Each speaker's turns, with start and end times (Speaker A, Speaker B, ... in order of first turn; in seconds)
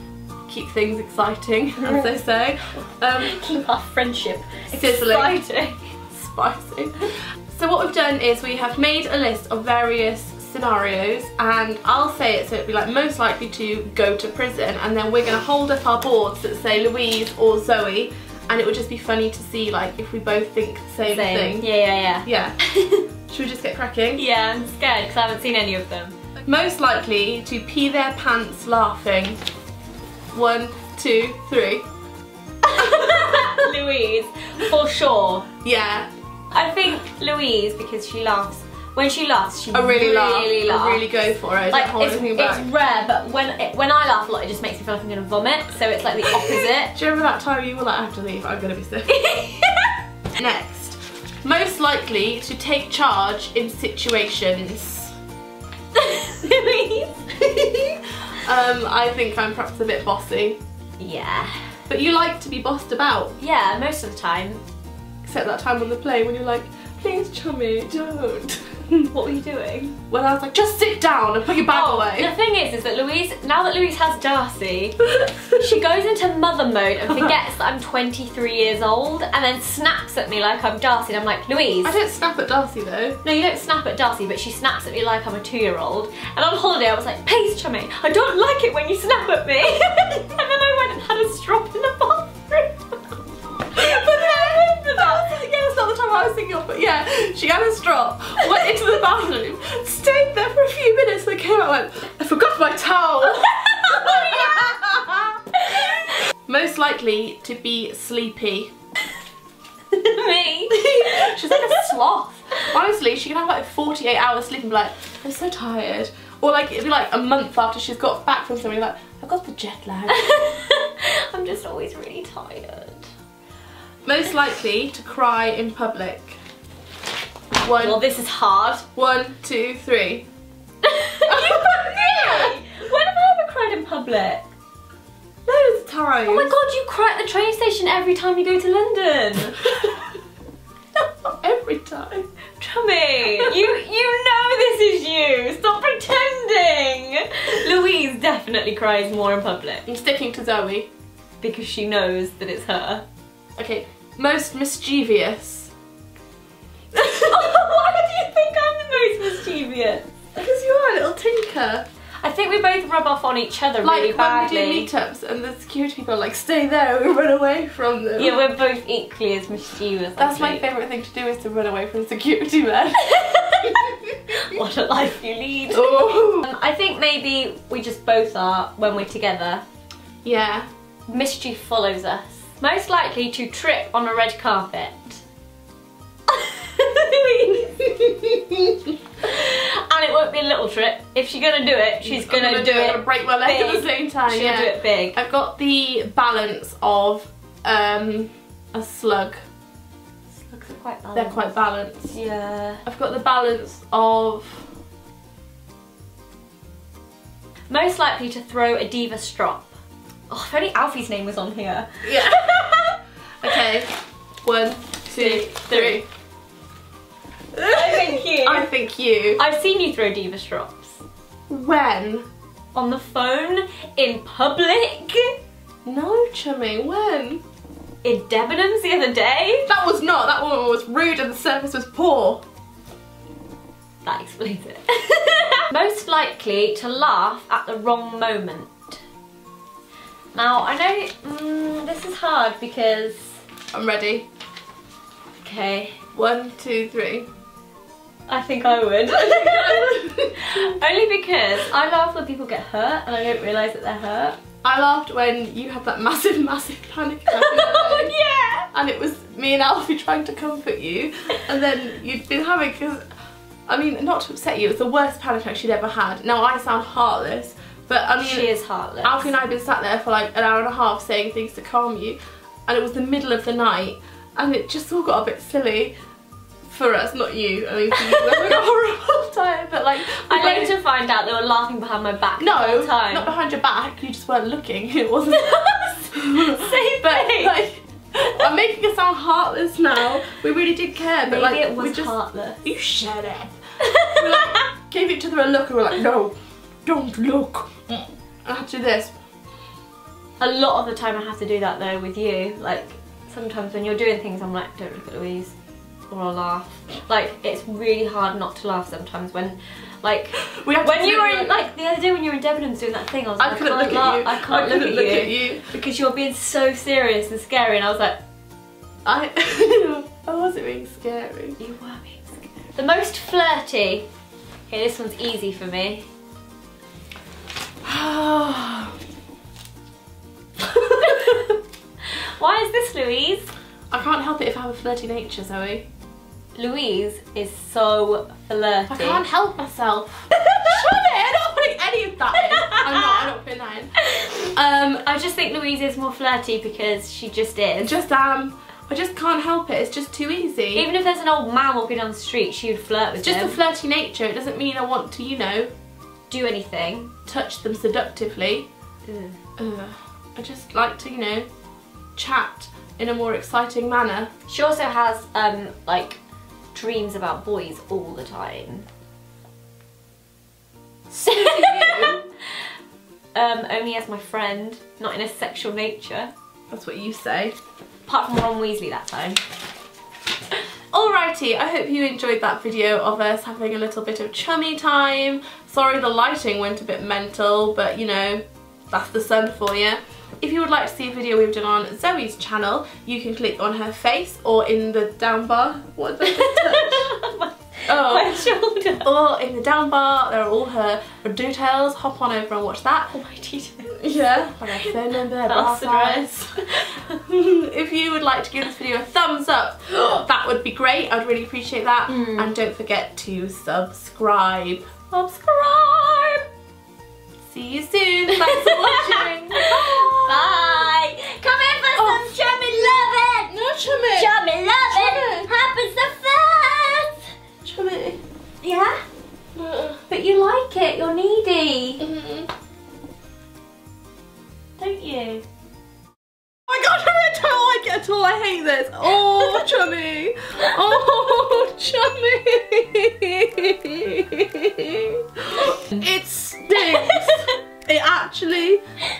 Speaker A: 0.5-3.4, 4.7-5.4, 6.1-21.7, 22.2-22.6, 23.3-24.2, 26.4-29.4, 30.3-31.9, 35.6-36.1, 39.7-42.7, 46.9-49.2, 50.4-55.1, 58.3-60.6, 61.9-63.4, 65.2-69.1, 70.1-72.3, 81.8-83.2, 93.7-105.3, 106.5-108.7, 110.7-120.3, 124.0-126.4, 127.6-128.0, 128.9-130.2, 131.2-132.5, 135.4-136.5, 141.0-142.3, 149.8-150.9, 153.6-155.7, 157.0-157.4, 160.3-161.9, 163.8-168.4, 170.2-174.4, 175.7-176.5, 180.2-180.7, 192.0-199.4, 201.1-202.1, 202.8-204.7, 212.0-213.9, 214.4-216.1, 217.5-219.4, 221.5-222.2, 225.8-227.4, 229.7-232.4, 243.7-244.2, 246.1-247.3, 249.1-250.7, 254.6-258.1, 258.7-263.0, 263.7-268.5, 269.0-275.9, 276.7-280.7, 282.4-296.3, 296.8-299.1, 310.4-311.6, 313.4-315.7, 319.0-321.6, 327.8-329.0, 330.6-331.4, 333.9-335.9, 338.9-343.9, 344.5-345.0, 347.8-350.9, 353.2-355.7, 357.2-358.7, 359.6-361.5, 362.1-364.3, 371.3-372.2, 376.7-377.6, 380.9-397.1, 397.9-398.5, 399.0-403.1, 403.9-415.0, 417.5-420.9, 421.9-425.5, 427.6-428.2, 429.6-430.0, 432.0-432.5, 436.7-448.8
Speaker B: 1.8-2.2, 3.2-5.8, 21.1-23.1, 24.1-26.2, 32.6-35.5, 36.5-41.1, 41.7-47.0, 49.1-49.9, 55.9-58.0, 61.0-61.7, 63.4-64.6, 69.1-70.0, 71.7-82.0, 83.2-92.8, 93.7-95.4, 103.6-104.9, 105.6-106.1, 109.9-111.8, 120.1-123.1, 127.7-128.8, 130.8-134.4, 136.2-139.9, 142.6-149.8, 151.4-153.0, 157.0-160.1, 162.2-164.9, 168.2-170.6, 173.0-179.6, 181.1-185.2, 186.3-195.2, 200.5-201.4, 202.1-202.8, 207.7-209.7, 210.3-212.9, 215.1-216.0, 217.6-218.7, 219.3-221.0, 222.7-225.3, 228.0-229.7, 234.0-239.0, 240.3-243.4, 245.4-246.0, 248.3-254.4, 257.3-258.7, 268.2-269.3, 280.1-283.3, 285.3-287.6, 291.2-292.6, 293.8-294.5, 300.4-305.5, 306.1-318.2, 321.6-324.1, 324.7-326.1, 331.1-331.4, 332.1-333.5, 336.6-339.2, 342.4-343.3, 344.0-344.3, 345.0-348.0, 350.7-353.6, 356.3-357.1, 359.1-359.4, 364.5-366.2, 366.7-368.9, 371.1-372.3, 373.3-376.3, 378.1-379.4, 396.2-399.1, 403.1-404.0, 404.8-407.1, 412.1-412.5, 415.1-416.4, 418.4-427.2, 428.6-429.0, 430.1-432.0, 434.8-435.4, 439.2-439.6, 440.7-441.3, 446.8-447.4